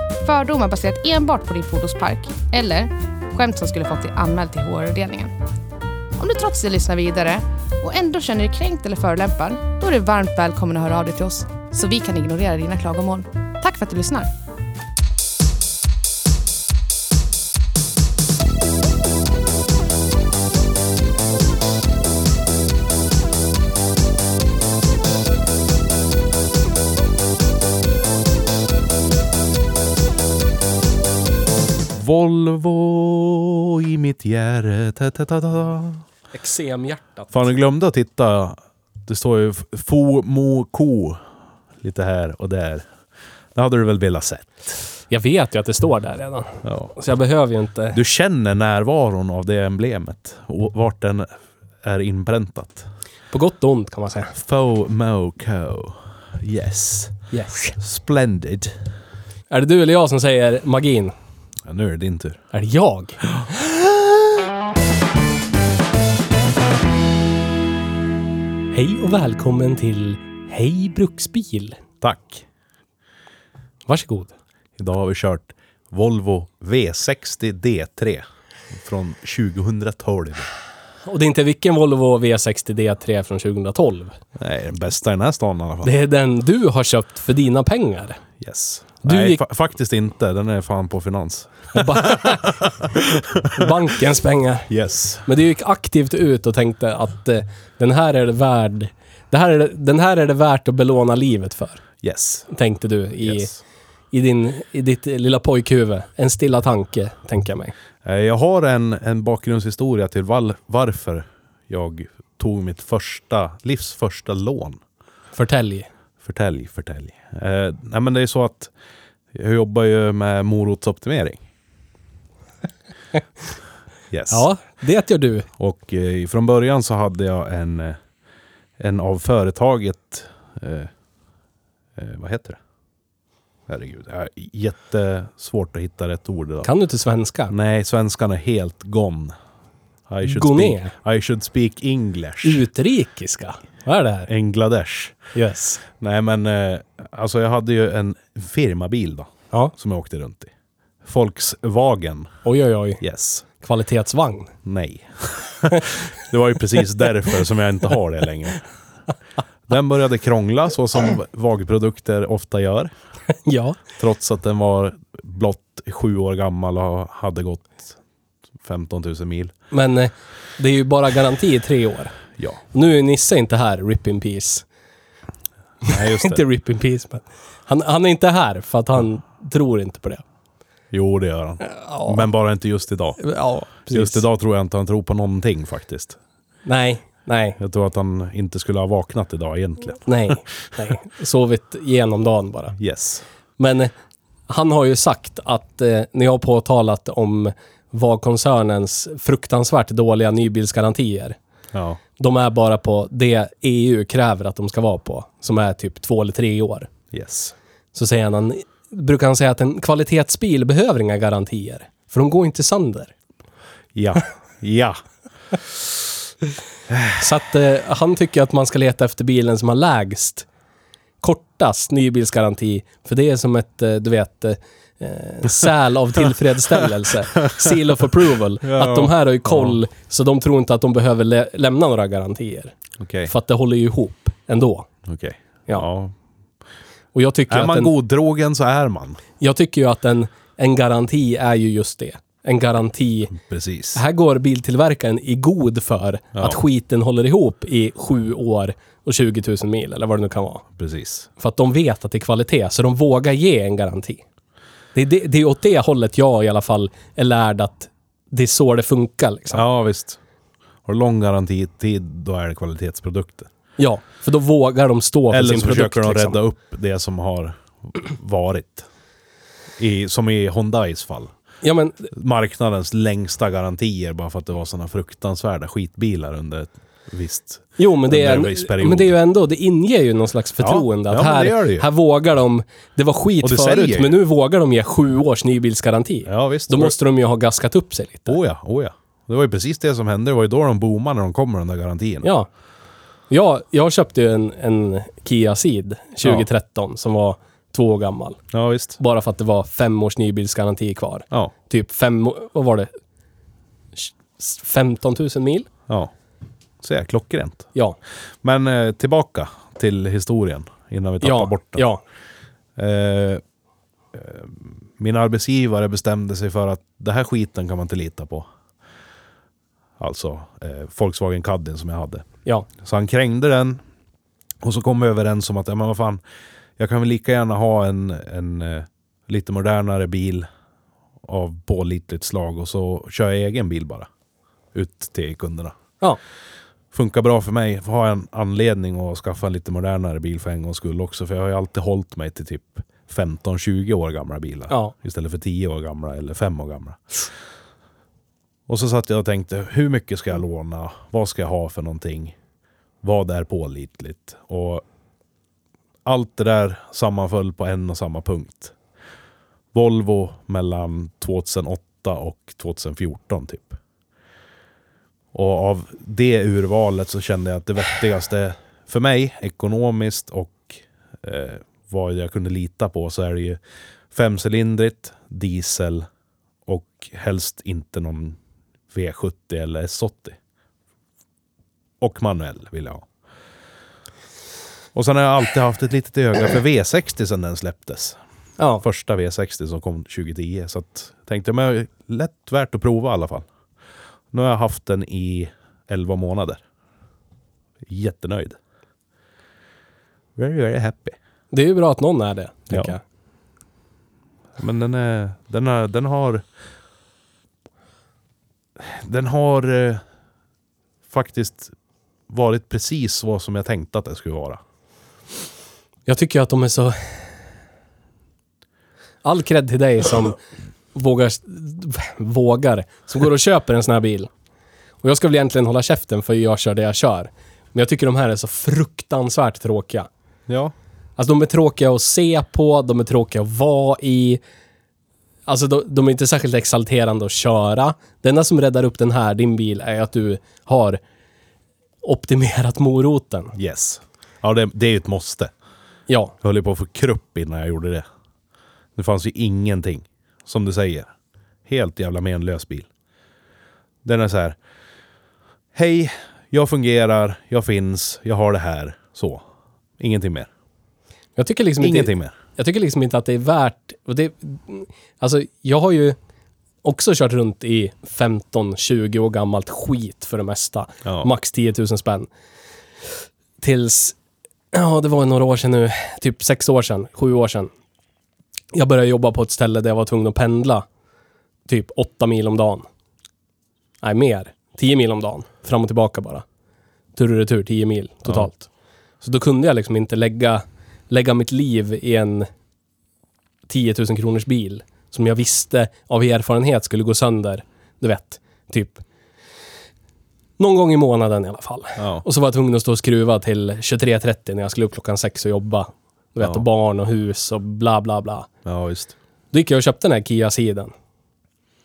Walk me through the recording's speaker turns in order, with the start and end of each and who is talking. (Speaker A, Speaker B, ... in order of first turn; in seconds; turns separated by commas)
Speaker A: 0.2-5.3, Speaker A: 6.2-14.3, Speaker B: 31.9-36.0, Speaker C: 36.3-37.4, Speaker B: 37.3-41.2, Speaker B: 41.8-42.8, Speaker B: 43.5-44.8, Speaker C: 45.1-48.0, Speaker B: 46.6-46.9, Speaker B: 47.9-52.9, Speaker C: 53.3-54.3, Speaker B: 54.3-57.2, Speaker C: 57.3-57.7, Speaker B: 57.7-58.7, Speaker C: 59.5-61.1, Speaker B: 61.6-62.4, Speaker C: 62.5-63.2, Speaker C: 68.7-71.8, Speaker B: 72.0-72.4, Speaker C: 73.9-74.3, Speaker B: 74.8-80.5, Speaker C: 81.0-84.2, Speaker B: 84.3-85.9, Speaker C: 85.8-88.2, Speaker B: 88.4-93.7, Speaker C: 89.0-89.4, Speaker C: 91.7-92.5, Speaker C: 93.5-94.7, Speaker B: 94.7-95.2, Speaker C: 95.2-101.8, Speaker B: 102.0-102.5, Speaker C: 102.5-103.5, Speaker B: 103.2-103.6, Speaker C: 104.1-107.7, Speaker B: 108.0-114.8, Speaker C: 115.3-115.9, Speaker B: 116.2-118.7, Speaker B: 119.3-121.4, Speaker B: 124.1-124.5, Speaker C: 124.3-125.5, Speaker B: 125.6-128.0, Speaker B: 128.8-130.9, Speaker B: 132.0-132.6, Speaker B: 133.7-136.7, Speaker C: 136.6-137.5, Speaker B: 137.5-139.3, Speaker B: 140.1-142.7, Speaker C: 140.2-140.9, Speaker C: 142.4-144.3, Speaker B: 144.3-145.2, Speaker C: 145.3-145.8, Speaker B: 146.0-150.5, Speaker B: 151.0-152.3, Speaker C: 152.4-153.0, Speaker B: 153.0-153.4, Speaker C: 153.6-154.5, Speaker B: 154.6-158.6, Speaker B: 159.7-162.9, Speaker C: 163.4-163.8, Speaker B: 164.0-168.0, Speaker B: 168.6-169.5, Speaker C: 169.7-172.2, Speaker C: 172.7-174.7, Speaker B: 175.8-176.4, Speaker C: 175.8-180.2, Speaker B: 180.9-183.2, Speaker C: 181.6-182.3, Speaker C: 183.2-184.2, Speaker B: 183.9-186.2, Speaker C: 186.6-187.6, Speaker B: 187.6-190.3, Speaker C: 190.0-192.8, Speaker B: 192.8-193.2, Speaker C: 193.6-193.9, Speaker C: 194.5-201.4, Speaker B: 201.7-202.0, Speaker C: 202.2-206.9, Speaker B: 207.1-207.5, Speaker C: 207.9-213.1, Speaker B: 213.9-215.0, Speaker B: 216.9-217.2, Speaker C: 217.2-220.4, Speaker C: 221.2-232.7, Speaker B: 228.6-229.8, Speaker B: 233.0-233.3, Speaker C: 233.2-234.9, Speaker B: 235.0-236.1, Speaker C: 237.1-237.9, Speaker B: 237.5-239.2, Speaker C: 239.4-243.3, Speaker B: 243.3-244.0, Speaker C: 243.9-250.6, Speaker B: 250.8-251.3, Speaker C: 251.4-254.2, Speaker C: 254.9-259.6, Speaker B: 259.5-260.2, Speaker B: 260.8-263.5, Speaker C: 263.8-266.4, Speaker B: 265.3-268.9, Speaker B: 269.8-271.3, Speaker C: 271.6-272.1, Speaker B: 272.1-279.1, Speaker C: 277.8-288.4, Speaker B: 280.6-281.9, Speaker B: 283.4-284.2, Speaker B: 286.2-286.9, Speaker B: 288.3-292.3, Speaker C: 292.2-292.5, Speaker C: 293.3-298.4, Speaker B: 298.5-299.0, Speaker C: 299.0-302.9, Speaker C: 303.9-305.7, Speaker B: 306.8-307.7, Speaker B: 308.4-311.8, Speaker C: 311.2-312.0, Speaker B: 312.8-313.4, Speaker B: 314.1-318.5, Speaker B: 320.0-322.2, Speaker B: 322.8-323.8, Speaker B: 324.6-326.2, Speaker B: 326.8-330.5, Speaker B: 331.2-334.1, Speaker B: 334.7-335.7, Speaker B: 336.9-347.2, Speaker B: 348.7-352.3, Speaker B: 353.0-354.8, Speaker B: 356.0-358.7, Speaker B: 359.7-363.8, Speaker B: 365.3-373.6, Speaker B: 374.1-376.1, Speaker B: 376.6-378.4, Speaker B: 378.9-380.4, Speaker B: 382.0-383.1, Speaker B: 384.9-388.2, Speaker C: 388.6-388.8, Speaker B: 388.8-393.4, Speaker B: 394.3-396.6, Speaker B: 397.9-398.6, Speaker B: 400.4-401.1, Speaker C: 401.5-403.0, Speaker B: 404.6-406.4, Speaker B: 408.8-410.0, Speaker B: 411.1-411.7, Speaker B: 412.3-414.6, Speaker C: 416.1-416.9, Speaker C: 419.2-420.4, Speaker C: 420.9-424.3, Speaker C: 425.0-430.1, Speaker B: 430.5-430.7, Speaker C: 431.2-434.4, Speaker C: 435.5-441.0, Speaker C: 442.0-443.5, Speaker B: 443.5-445.5, Speaker C: 446.1-446.3, Speaker B: 446.4-448.0, Speaker B: 448.9-451.1, Speaker B: 451.6-452.9, Speaker B: 454.0-454.6, Speaker B: 455.7-459.4, Speaker B: 460.0-460.5, Speaker C: 461.4-466.1, Speaker B: 461.8-462.4, Speaker C: 466.8-472.3, Speaker C: 473.6-474.1, Speaker C: 474.7-477.7, Speaker C: 478.7-480.8, Speaker C: 481.7-482.9, Speaker C: 484.0-486.4, Speaker C: 487.1-488.7, Speaker C: 489.2-492.5, Speaker C: 493.7-499.0, Speaker C: 500.6-508.5, Speaker B: 502.0-502.2, Speaker B: 508.6-509.1, Speaker C: 509.5-510.9